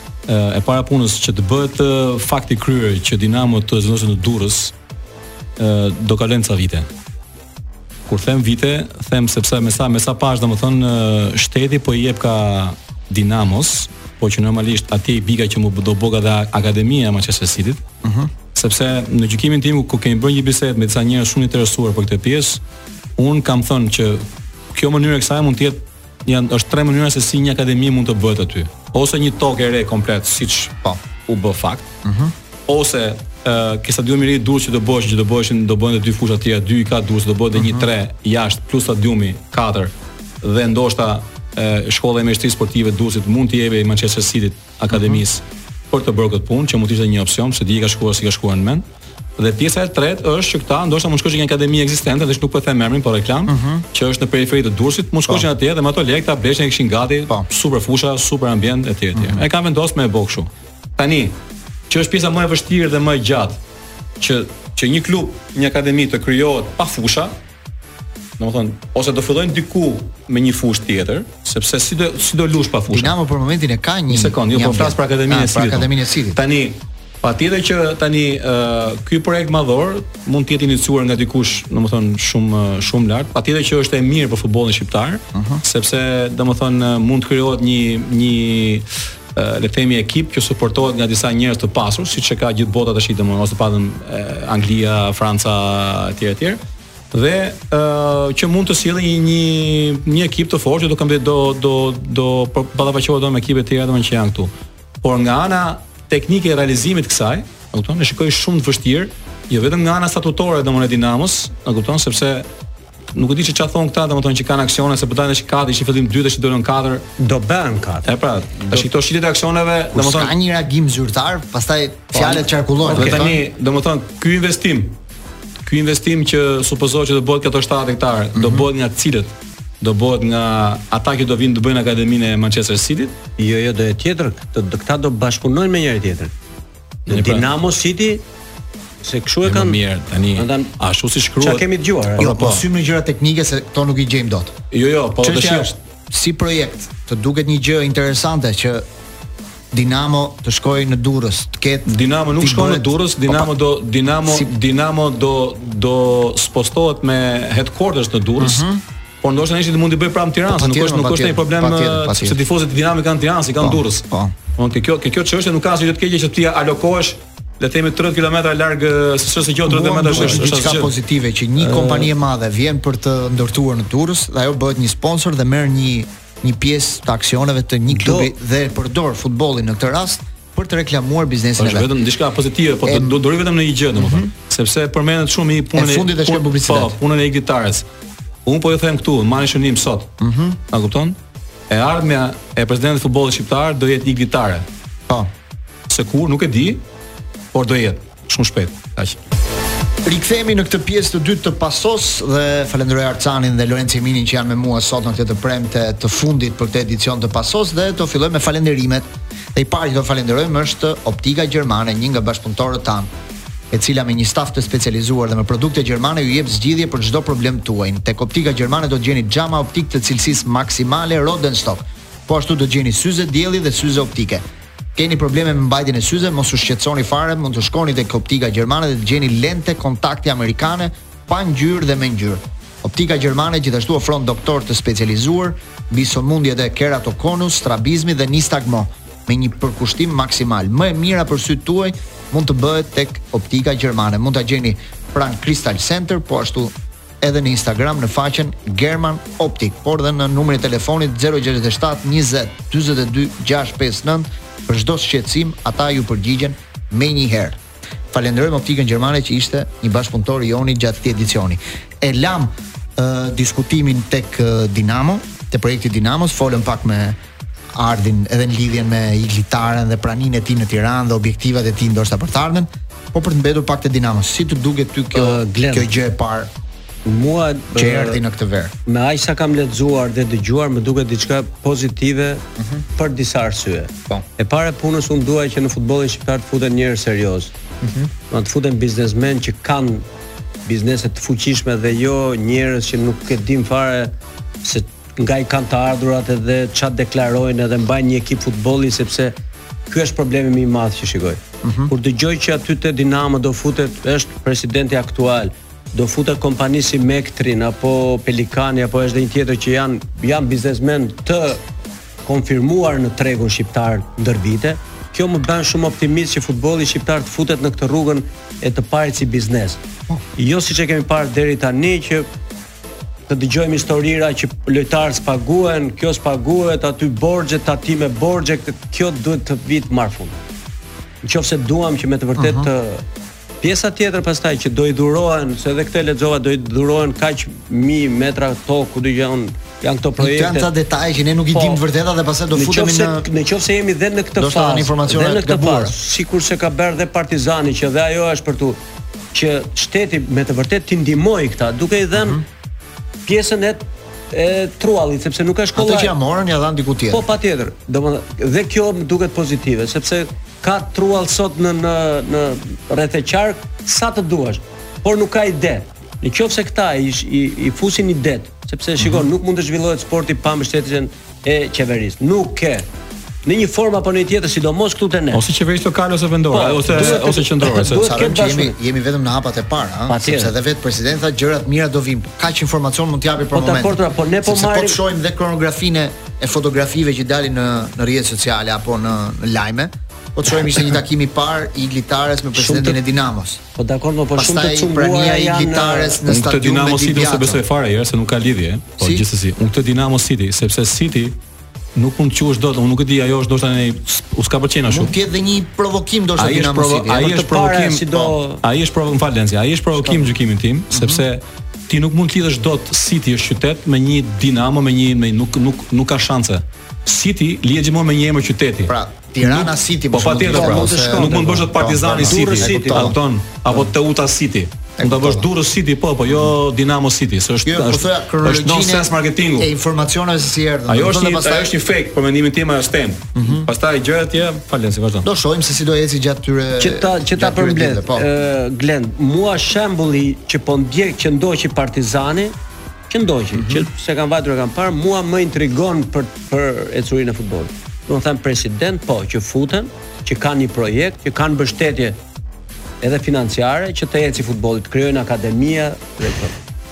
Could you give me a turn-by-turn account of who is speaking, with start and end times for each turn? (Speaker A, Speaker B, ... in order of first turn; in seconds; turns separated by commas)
Speaker A: 0.3-4.7, Speaker A: 5.6-6.9, Speaker A: 8.1-17.8, Speaker B: 18.0-18.3, Speaker A: 18.5-22.6, Speaker A: 23.2-31.9, Speaker B: 32.0-32.3, Speaker A: 32.7-48.8, Speaker B: 37.5-37.9, Speaker B: 44.9-45.2, Speaker A: 49.4-61.3, Speaker B: 53.5-53.8, Speaker B: 59.1-59.4, Speaker A: 61.9-63.6, Speaker A: 64.2-67.3, Speaker A: 68.4-73.1, Speaker B: 72.9-76.4, Speaker A: 74.1-96.6, Speaker B: 85.3-85.6, Speaker A: 97.1-104.5, Speaker A: 105.0-112.5, Speaker A: 113.1-117.0, Speaker C: 117.2-118.9, Speaker A: 118.0-120.3, Speaker B: 119.9-123.4, Speaker C: 122.1-123.2, Speaker A: 122.9-125.0, Speaker A: 125.6-133.1, Speaker B: 128.3-128.7, Speaker C: 133.4-136.3, Speaker A: 137.1-137.5, Speaker C: 137.1-138.2, Speaker C: 139.0-139.8, Speaker A: 139.4-141.7, Speaker C: 140.3-140.7, Speaker C: 141.4-142.2, Speaker A: 142.2-142.6, Speaker B: 142.2-144.5, Speaker A: 144.7-145.7, Speaker B: 145.2-148.8, Speaker B: 149.7-153.5, Speaker A: 151.9-158.7, Speaker B: 158.4-158.8, Speaker A: 159.2-164.0, Speaker B: 160.5-162.4, Speaker B: 163.6-164.3, Speaker A: 164.6-170.9, Speaker B: 169.7-181.9, Speaker C: 171.6-172.1, Speaker C: 177.9-178.3, Speaker A: 181.6-187.8, Speaker B: 182.8-183.2, Speaker B: 183.9-184.3, Speaker B: 185.7-186.9, Speaker A: 188.4-190.1, Speaker B: 190.2-190.6, Speaker A: 190.7-191.2, Speaker A: 191.7-194.6, Speaker A: 195.9-196.8, Speaker A: 197.5-199.2, Speaker B: 200.0-213.1, Speaker B: 213.7-224.4, Speaker B: 224.9-257.6, Speaker B: 258.1-267.2, Speaker B: 267.7-276.5, Speaker C: 275.1-275.9, Speaker C: 277.0-278.2, Speaker B: 277.7-278.7, Speaker C: 278.9-282.4, Speaker B: 282.6-282.8, Speaker C: 283.0-287.5, Speaker B: 287.8-288.1, Speaker C: 288.3-290.1, Speaker C: 290.6-294.1, Speaker C: 294.6-299.3, Speaker C: 299.9-311.6, Speaker B: 301.6-301.9, Speaker C: 312.2-319.8, Speaker C: 320.4-322.3, Speaker C: 323.3-330.3, Speaker C: 331.2-333.0, Speaker B: 332.4-332.7, Speaker C: 333.6-340.7, Speaker B: 340.2-343.2, Speaker C: 341.5-341.8, Speaker C: 342.5-348.8, Speaker B: 344.4-345.9, Speaker C: 349.3-352.4, Speaker B: 352.1-352.4, Speaker C: 353.2-356.1, Speaker B: 355.8-357.2, Speaker C: 357.1-372.8, Speaker B: 369.0-369.2, Speaker C: 373.4-375.4, Speaker A: 375.3-378.1, Speaker C: 376.5-378.8, Speaker B: 376.9-377.2, Speaker B: 377.9-393.6, Speaker C: 380.1-380.5, Speaker C: 383.5-385.0, Speaker C: 392.6-393.0, Speaker C: 393.8-396.2, Speaker B: 394.4-397.6, Speaker A: 396.3-401.4, Speaker B: 399.0-399.2, Speaker A: 401.9-405.1, Speaker B: 404.9-407.3, Speaker A: 406.4-429.7, Speaker C: 407.2-408.6, Speaker B: 410.9-411.2, Speaker B: 418.9-423.2, Speaker C: 420.5-423.1, Speaker B: 425.0-425.5, Speaker B: 426.3-426.5, Speaker B: 427.6-431.7, Speaker A: 430.9-435.3, Speaker B: 433.3-433.7, Speaker B: 435.2-438.3, Speaker C: 436.8-442.5, Speaker C: 443.1-452.2, Speaker B: 443.5-443.9, Speaker C: 453.0-456.6